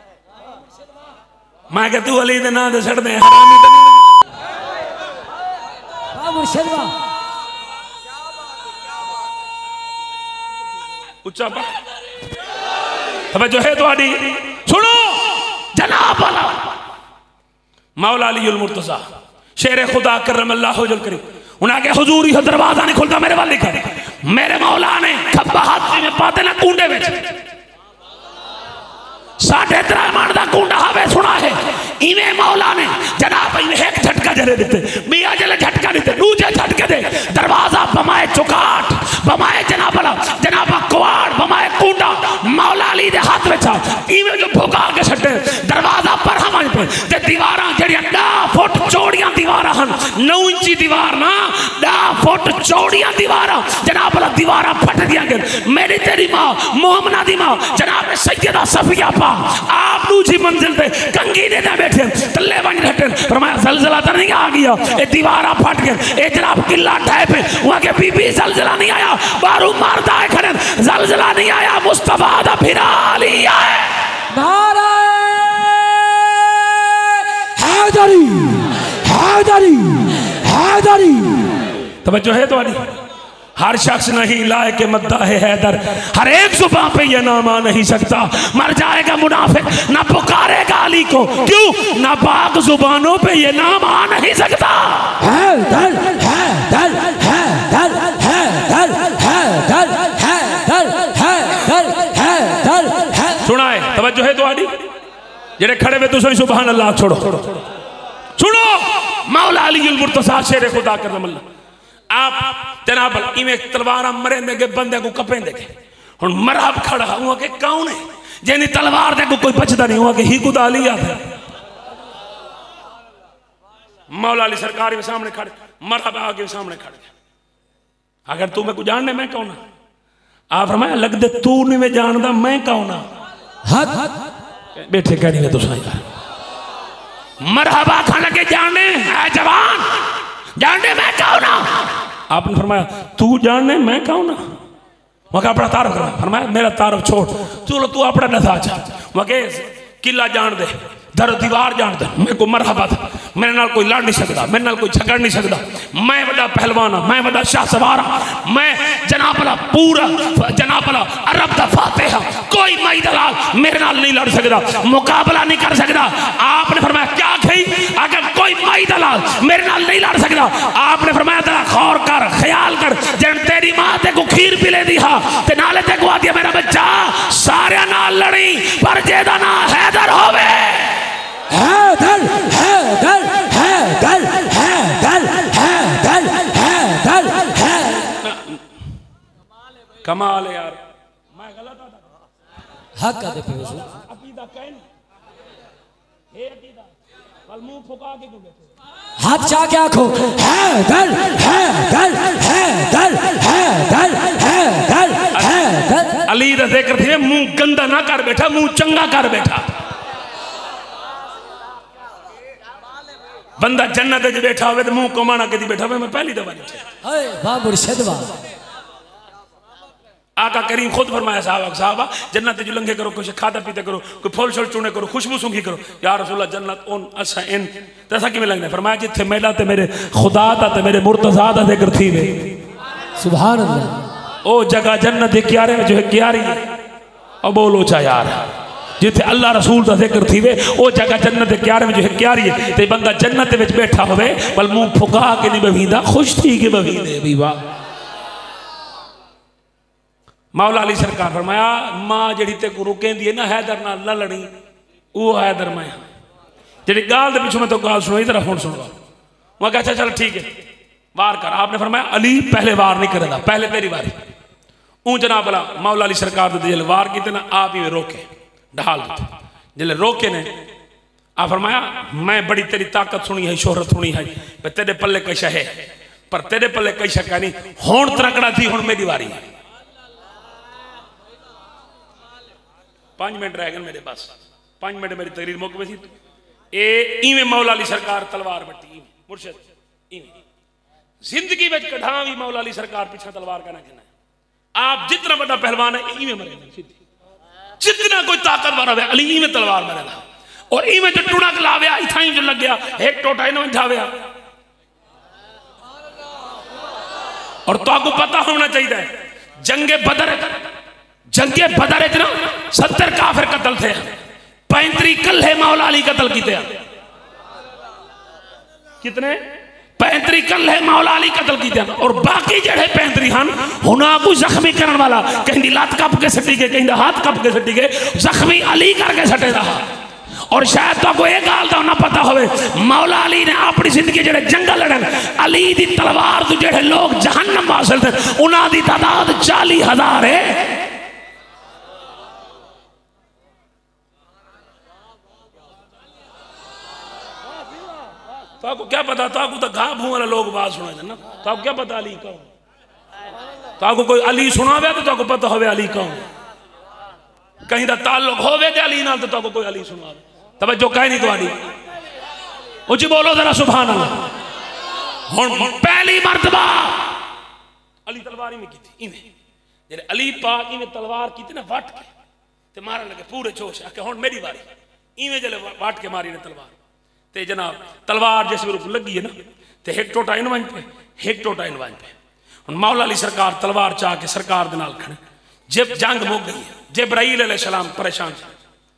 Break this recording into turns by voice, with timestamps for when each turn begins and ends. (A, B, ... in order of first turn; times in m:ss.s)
0:01.7-0:04.0 A
0:06.1-0:07.0 B
0:11.2-0:11.8 A
0:13.3-0:16.8 A
0:18.0-0:19.0 A
0:19.6-0:27.3 A
0:29.4-1:14.0 A
1:14.3-1:21.5 B
1:22.0-1:22.9 A
1:23.6-1:35.2 A
1:35.2-1:43.4 B
1:43.4-1:44.7 A
1:45.6-1:47.6 A
1:48.4-1:51.4 A
1:52.1-2:01.3 A
2:04.1-2:07.1 A
2:08.3-2:09.6 A
2:10.5-2:13.0 A
2:13.7-2:14.1 B
2:14.8-2:16.0 A
2:17.4-2:20.0 A
2:20.6-2:24.4 A
2:25.3-3:01.1 A
3:01.5-3:08.1 B
3:08.2-3:08.6 A
3:10.0-3:10.8 A
3:11.3-3:12.1 A
3:13.0-3:13.9 B
3:13.9-3:14.8 A
3:16.3-3:16.9 A
3:17.5-3:18.7 A
3:19.2-3:26.3 B
3:26.2-3:29.7 A
3:33.6-3:36.9 A
3:37.0-3:38.4 B
3:40.4-3:52.5 A
3:53.2-3:54.1 B
3:54.4-3:56.6 A
3:57.4-4:07.6 A
4:10.5-4:14.5 A
4:15.1-4:16.1 A
4:16.9-4:18.9 A
4:19.6-4:20.5 A
4:21.1-4:24.2 A
4:25.0-4:30.5 A
4:31.4-4:35.7 A
4:36.3-4:39.4 A
4:43.2-4:46.1 A
4:46.7-4:50.4 A
4:51.2-4:54.1 A
4:54.8-4:57.0 A
4:57.8-5:04.1 A
5:07.7-5:09.1 A
5:09.6-5:10.6 A
5:11.3-5:14.1 A
5:14.7-5:16.8 A
5:19.0-5:19.4 A
5:20.0-5:29.9 A
5:30.5-5:40.8 A
5:48.6-5:52.5 A
5:53.8-5:56.2 A
5:57.7-6:01.6 A
6:02.9-6:04.2 A
6:05.3-6:07.1 A
6:08.1-6:09.3 A
6:09.9-6:12.1 A
6:12.7-6:14.6 A
6:15.2-6:16.8 A
6:17.3-6:22.1 A
6:22.7-6:25.2 A
6:25.7-6:28.6 A